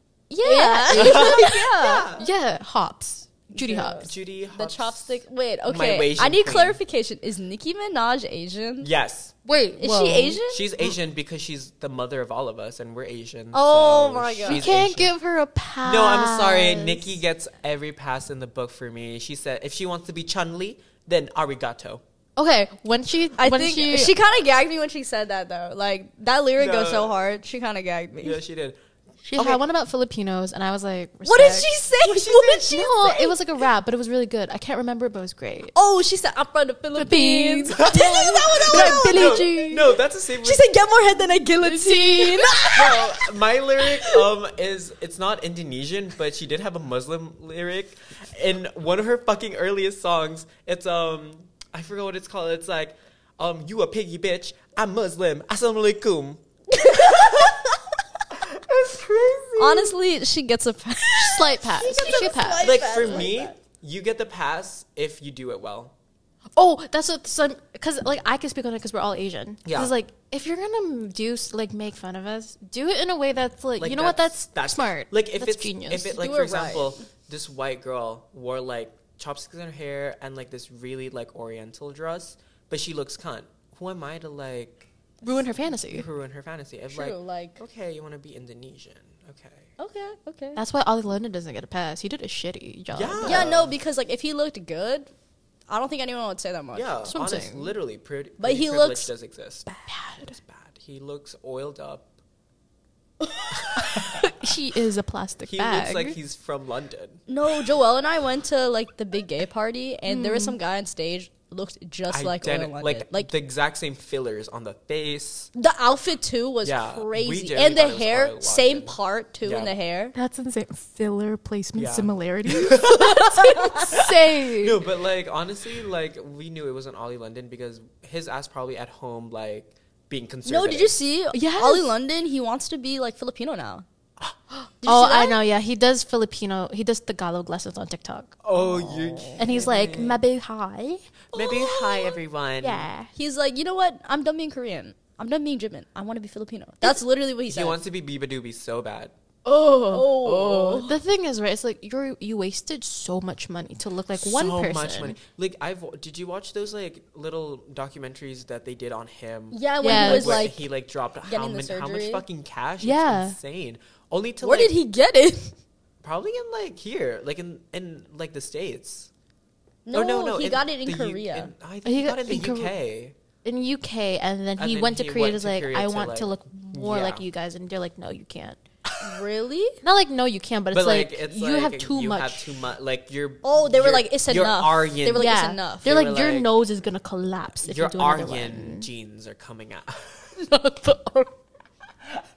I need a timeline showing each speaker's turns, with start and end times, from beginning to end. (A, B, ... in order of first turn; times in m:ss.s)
0:00.3-0:02.1 A
0:00.4-0:04.1 B
0:00.9-0:02.3 C
0:03.5-0:08.9 A
0:04.0-0:06.8 C
0:08.8-0:09.3 C
0:09.4-0:10.4 B
0:09.8-0:10.6 A
0:10.5-0:15.1 C
0:13.5-0:14.6 A
0:14.4-0:17.1 B
0:15.8-0:22.0 C
0:22.4-0:24.1 B
0:23.4-0:28.4 A
0:26.6-0:27.2 C
0:28.2-0:28.8 C
0:29.2-0:31.7 B
0:29.4-0:29.6 C
0:31.2-0:33.4 A
0:32.0-0:32.6 C
0:32.3-0:35.7 B
0:35.7-0:43.3 A
0:36.9-0:39.9 B
0:37.8-0:40.7 C
0:41.6-0:43.0 B
0:42.7-0:57.7 C
0:56.9-0:57.4 A
0:58.3-1:00.0 C
0:59.6-1:03.6 A
1:01.2-1:03.2 B
1:01.8-1:05.9 C
1:06.6-1:16.2 B
1:09.6-1:09.9 C
1:13.8-1:29.7 C
1:16.2-1:17.0 A
1:25.2-1:26.1 B
1:26.9-1:27.6 A
1:29.8-1:30.6 A
1:30.6-1:33.5 B
1:32.9-1:33.7 C
1:33.2-1:35.1 A
1:35.7-1:36.9 A
1:36.7-1:39.7 C
1:37.1-1:37.7 B
1:38.4-1:39.1 A
1:39.9-1:40.3 B
1:40.2-1:42.1 C
1:43.5-1:44.3 C
1:43.9-1:46.2 B
1:45.5-1:47.2 C
1:47.3-1:53.3 A
1:50.0-1:50.6 B
1:52.1-1:55.5 C
1:55.5-2:00.1 A
1:56.6-1:59.7 C
2:00.1-2:04.8 B
2:01.7-2:11.0 C
2:03.6-2:03.9 A
2:10.4-2:13.8 A
2:11.3-2:11.9 B
2:14.8-2:15.4 A
2:14.8-2:18.4 B
2:18.4-2:20.2 C
2:18.6-2:19.6 A
2:19.4-2:21.2 B
2:21.3-2:22.9 C
2:21.4-2:22.1 A
2:22.6-2:23.1 B
2:23.1-2:27.8 A
2:27.5-2:29.1 C
2:29.4-2:35.2 B
2:29.8-2:31.0 A
2:34.2-2:44.8 C
2:39.5-2:40.6 A
2:39.8-2:40.5 B
2:41.2-2:42.2 A
2:42.8-2:43.4 B
2:44.4-2:45.6 A
2:46.0-2:49.1 C
2:49.8-2:51.5 A
2:49.9-2:53.1 C
2:51.8-2:52.7 B
2:53.4-2:58.6 B
2:54.6-2:57.2 C
2:59.0-2:59.8 A
2:59.8-3:02.6 B
3:00.7-3:06.5 C
3:03.4-3:05.9 A
3:05.1-3:08.9 B
3:07.6-3:10.3 C
3:10.4-3:11.3 B